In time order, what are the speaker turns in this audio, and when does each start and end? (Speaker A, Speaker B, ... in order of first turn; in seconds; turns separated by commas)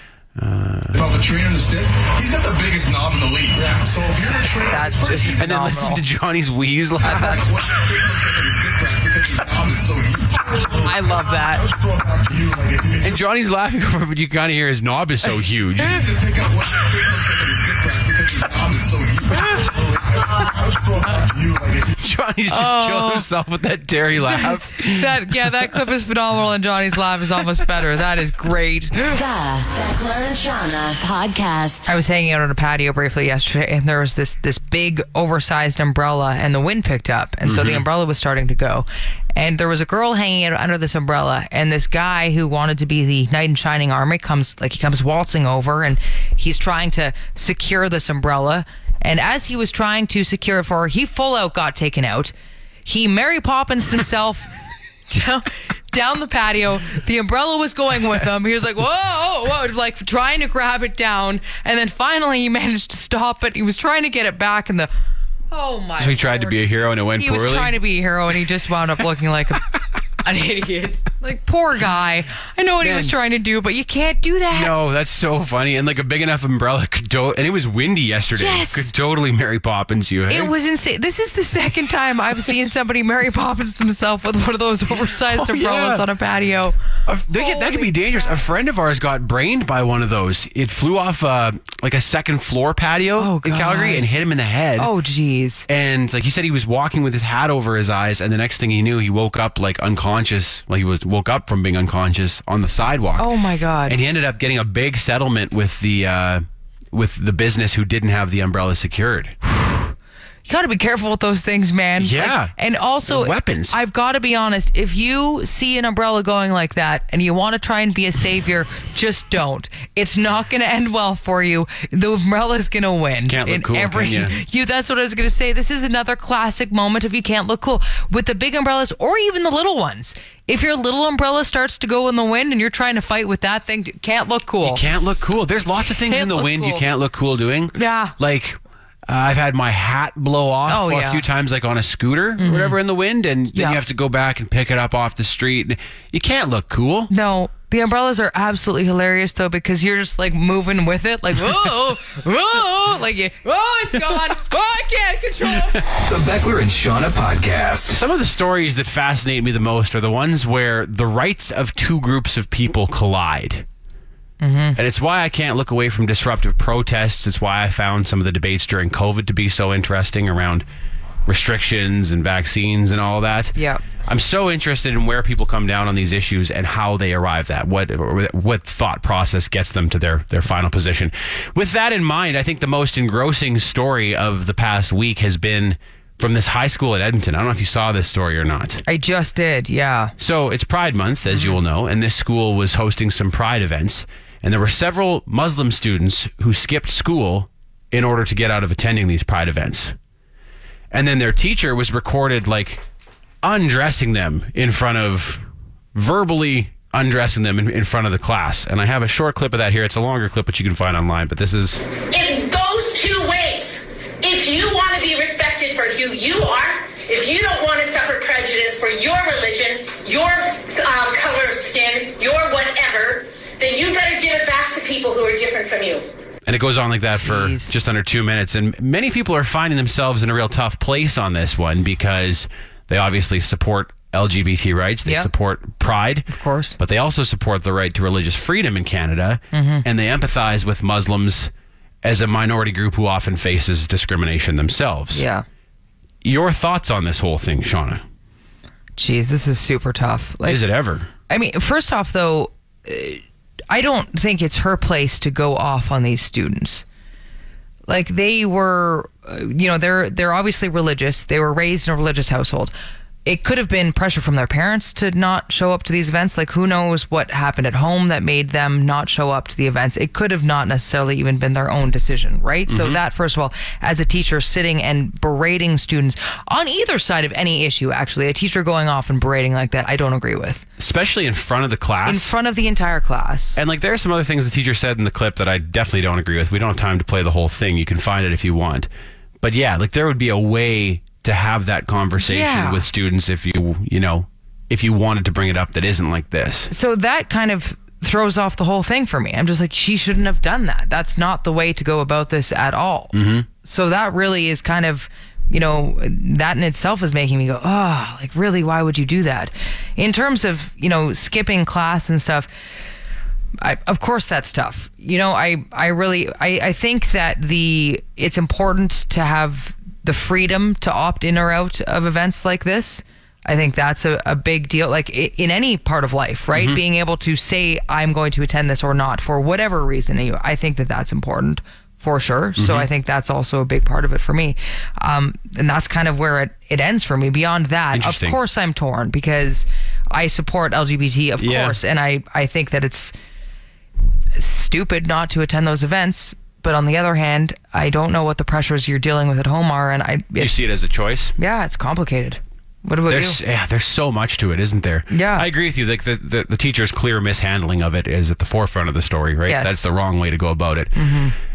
Speaker A: 0.4-1.0, Speaker B: 0.9-5.5, Speaker C: 4.7-6.0, Speaker A: 5.4-7.5, Speaker C: 7.0-7.5, Speaker B: 7.1-13.2, Speaker C: 10.8-11.7, Speaker A: 13.0-16.1, Speaker B: 15.8-21.9, Speaker A: 22.0-25.7, Speaker C: 22.5-23.3, Speaker C: 24.2-29.1, Speaker D: 29.0-31.9, Speaker C: 31.9-52.3, Speaker A: 37.5-37.8, Speaker C: 52.9-54.5, Speaker C: 55.1-64.9, Speaker C: 65.5-66.6, Speaker A: 66.0-67.8, Speaker C: 67.2-69.7, Speaker C: 70.2-74.7, Speaker A: 72.8-73.1, Speaker A: 74.5-80.5, Speaker C: 78.4-78.9, Speaker C: 80.3-86.8, Speaker A: 84.9-86.1, Speaker A: 87.1-94.9, Speaker C: 87.3-88.5, Speaker C: 93.2-94.1, Speaker C: 94.8-95.7, Speaker A: 95.7-109.4, Speaker C: 103.2-104.0, Speaker C: 109.5-109.9, Speaker C: 110.5-134.8, Speaker A: 112.0-112.5, Speaker A: 113.1-113.8, Speaker A: 123.3-124.4, Speaker A: 134.6-147.1, Speaker C: 136.1-136.8, Speaker C: 137.8-138.2, Speaker C: 140.7-141.2, Speaker C: 142.4-142.8, Speaker C: 143.5-143.8, Speaker C: 147.1-155.8, Speaker E: 156.0-158.0, Speaker A: 157.9-163.7, Speaker C: 164.4-164.8, Speaker A: 164.8-170.7, Speaker A: 171.3-188.8, Speaker C: 173.6-173.8, Speaker C: 188.9-190.1, Speaker A: 190.2-200.0, Speaker C: 191.3-191.6, Speaker A: 200.9-202.8, Speaker A: 203.4-211.8, Speaker F: 212.1-226.1, Speaker A: 226.5-241.5, Speaker C: 227.2-227.7, Speaker C: 236.3-236.8, Speaker C: 239.5-239.9, Speaker A: 242.0-245.2, Speaker C: 245.1-245.4, Speaker A: 246.2-248.0, Speaker C: 249.0-250.6, Speaker A: 250.5-251.1, Speaker C: 251.3-256.8, Speaker C: 257.9-262.7, Speaker C: 263.3-280.7, Speaker A: 272.7-273.0, Speaker A: 280.8-282.4, Speaker C: 282.1-283.6, Speaker A: 283.6-288.9, Speaker A: 289.4-296.7, Speaker C: 292.2-292.9, Speaker C: 296.7-312.5, Speaker A: 303.1-303.5, Speaker C: 313.6-343.1, Speaker A: 326.5-326.8, Speaker A: 332.6-332.9, Speaker A: 337.9-338.4, Speaker A: 341.4-341.8, Speaker C: 344.4-350.6, Speaker A: 350.4-351.3, Speaker C: 351.4-353.4, Speaker A: 353.1-361.2, Speaker C: 355.1-355.5, Speaker C: 359.5-359.8, Speaker C: 361.0-361.4